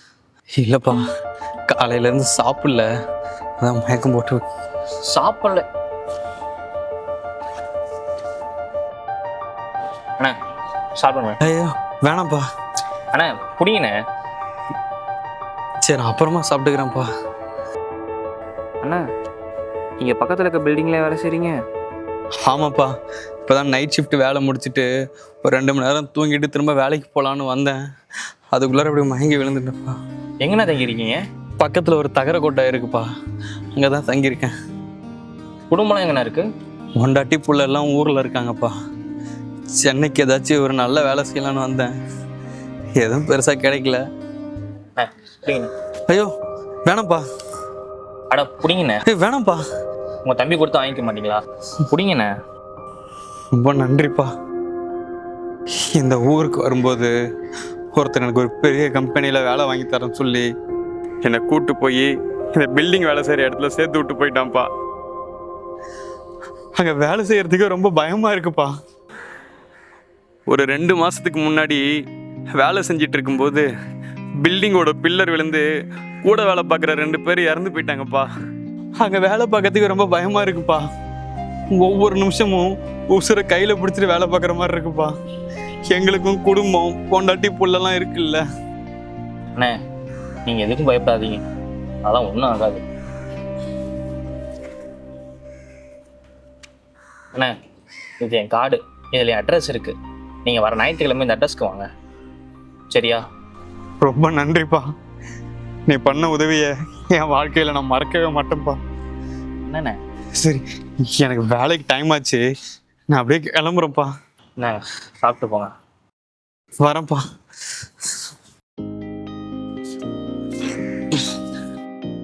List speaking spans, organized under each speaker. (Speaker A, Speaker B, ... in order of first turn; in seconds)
Speaker A: 0.6-1.0, 1.7-2.9, 3.6-4.4, 11.4-12.4, 15.8-17.1, 22.4-22.9, 23.4-24.9, 25.4-27.7, 28.5-30.0, 31.6-33.0, 33.7-34.5, 37.0-38.7, 39.8-41.9, 43.0-44.0, 46.9-47.2, 49.1-49.6, 53.5-54.3, 55.9-57.1, 57.9-60.5, 61.2-64.7, 66.8-68.7, 70.5-71.8, 72.5-73.7, 74.4-75.7, 76.2-78.3, 79.0-80.8, 81.7-85.1, 85.9-88.4, 104.0-104.8, 105.9-108.8, 111.2-112.4, 113.1-114.1, 116.8-117.2
Speaker B: 5.1-5.6, 11.0-11.4, 13.1-13.9, 20.0-21.6, 30.4-31.2, 35.7-36.5, 45.0-45.7, 48.3-49.0, 50.2-52.3, 90.5-91.4, 92.0-92.8, 98.2-101.8, 102.9-103.2, 109.7-110.0, 114.6-115.7